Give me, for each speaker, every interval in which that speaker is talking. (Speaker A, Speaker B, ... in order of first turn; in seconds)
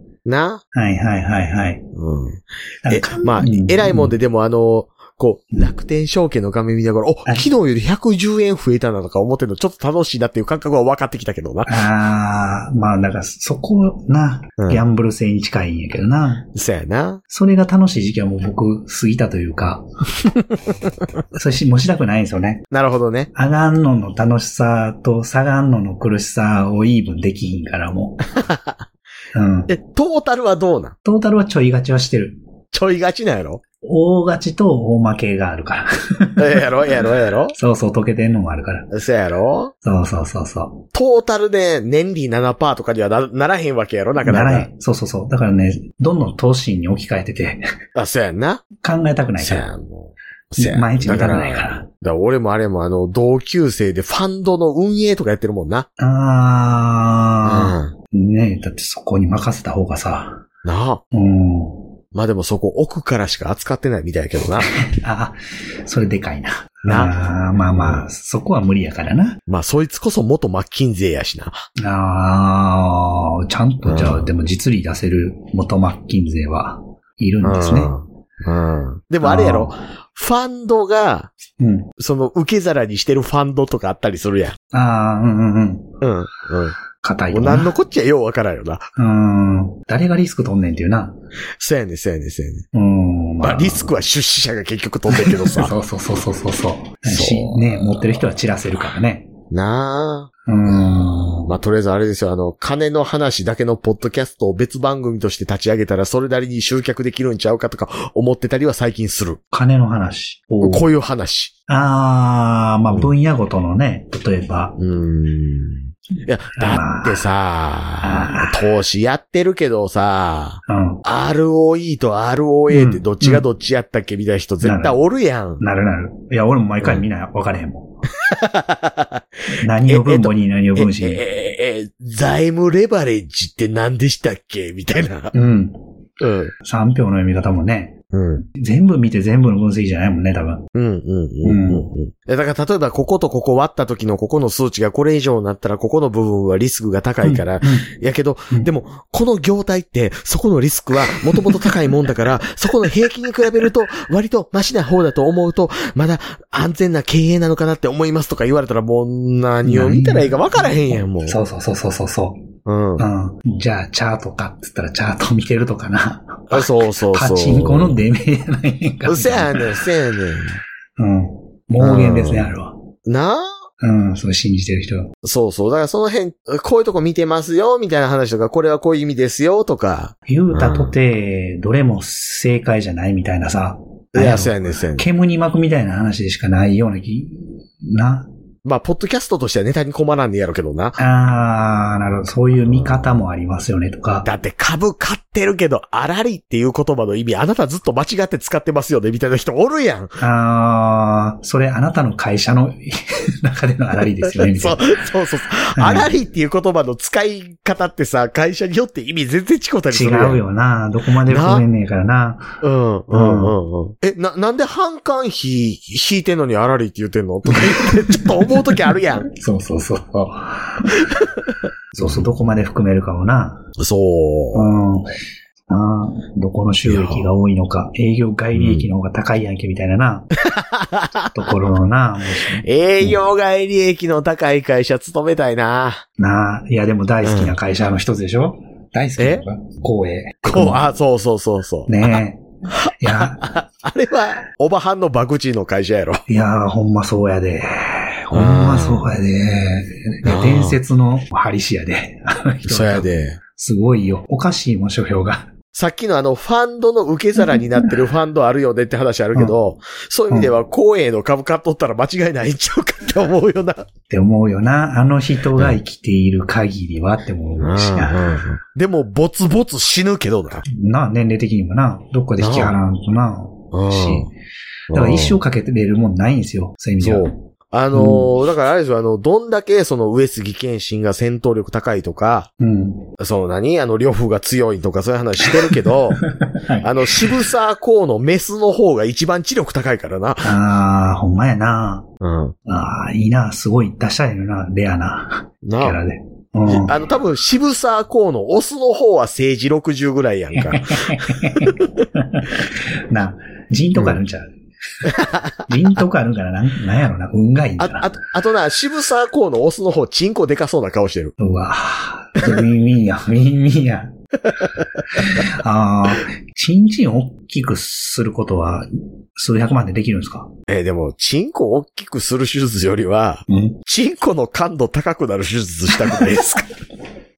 Speaker A: 0.2-0.6, 1.9-11.7, 16.6-17.2, 20.6-20.9, 22.7-23.3, 28.4-28.8, 29.7-30.9, 32.7-33.6, 36.4-37.5, 38.9-39.7, 40.9-44.7, 48.0-48.6, 49.4-55.9, 57.5-57.9, 60.6-61.0, 62.1-64.7, 66.9-67.1, 67.7-68.1, 69.5-71.7, 73.8-74.3, 77.4-81.3, 82.0-84.6, 86.0-86.8, 87.3-88.9, 91.6-92.7, 93.4-95.7, 97.1-98.3, 99.5-100.3, 101.4-109.4, 110.6-111.5, 114.8-125.6, 128.3-129.2, 129.8-135.3, 136.2-136.5, 138.1-138.4, 140.7-161.4, 162.7-163.1, 166.5-168.0, 169.1-170.6, 171.8-172.5, 173.1-173.5, 175.2-180.9, 184.1-185.1, 188.6-191.0, 192.7-193.1, 194.2-200.2, 204.3-210.4, 211.3-211.7, 212.6-219.3, 221.1-222.2, 223.8-224.7, 226.9-227.3, 228.5-228.9, 230.5-231.3, 232.6-236.0, 237.2-237.6, 239.2-239.4, 240.4-242.0, 243.1-246.2, 248.3-249.2, 250.2-250.8, 252.7-253.4, 255.7-263.9, 267.6-270.6, 272.4-272.8, 273.7-274.3, 274.9-275.4, 277.0-282.5, 283.2-286.2, 286.8-290.5, 292.2-292.6, 295.6-296.0, 296.7-301.8, 305.1-305.6, 307.8-311.3, 320.7-326.7
Speaker B: 0.7-1.8, 2.8-4.1, 11.7-16.5, 17.3-19.9, 21.3-22.7, 23.3-28.2, 29.3-29.7, 31.0-32.4, 33.8-36.7, 37.5-38.9, 39.8-40.9, 44.2-47.6, 48.8-49.7, 50.6-51.9, 56.0-60.5, 61.1-61.8, 64.9-69.4, 71.8-77.9, 79.2-79.8, 81.6-81.9, 84.7-86.0, 87.0-87.8, 89.0-91.2, 92.7-93.9, 95.1-99.3, 100.5-101.5, 109.5-110.9, 111.7-114.8, 116.6-117.3, 118.0-118.7, 120.7-121.0, 122.7-123.4, 124.6-125.0, 125.6-128.0, 129.6-131.2, 135.3-135.8, 136.6-140.7, 141.4-141.9, 147.2-147.9, 151.3-151.7, 159.6-162.4, 163.0-169.8, 171.0-172.8, 173.8-175.1, 180.3-188.3, 191.0-194.3, 200.2-205.0, 205.8-206.1, 209.9-212.6, 213.1-213.6, 217.5-221.0, 221.9-223.7, 224.5-225.1, 225.7-230.3, 231.3-233.2, 236.2-240.9, 241.9-243.5, 246.3-255.5, 257.4-257.9, 260.3-260.6, 264.1-268.4, 270.7-274.3, 274.9-277.4, 277.9-278.3, 282.6-283.1, 286.4-287.4, 290.4-292.1, 292.7-297.0, 300.6-304.5, 305.7-308.2, 311.4-314.1, 315.1-320.5, 323.5-323.8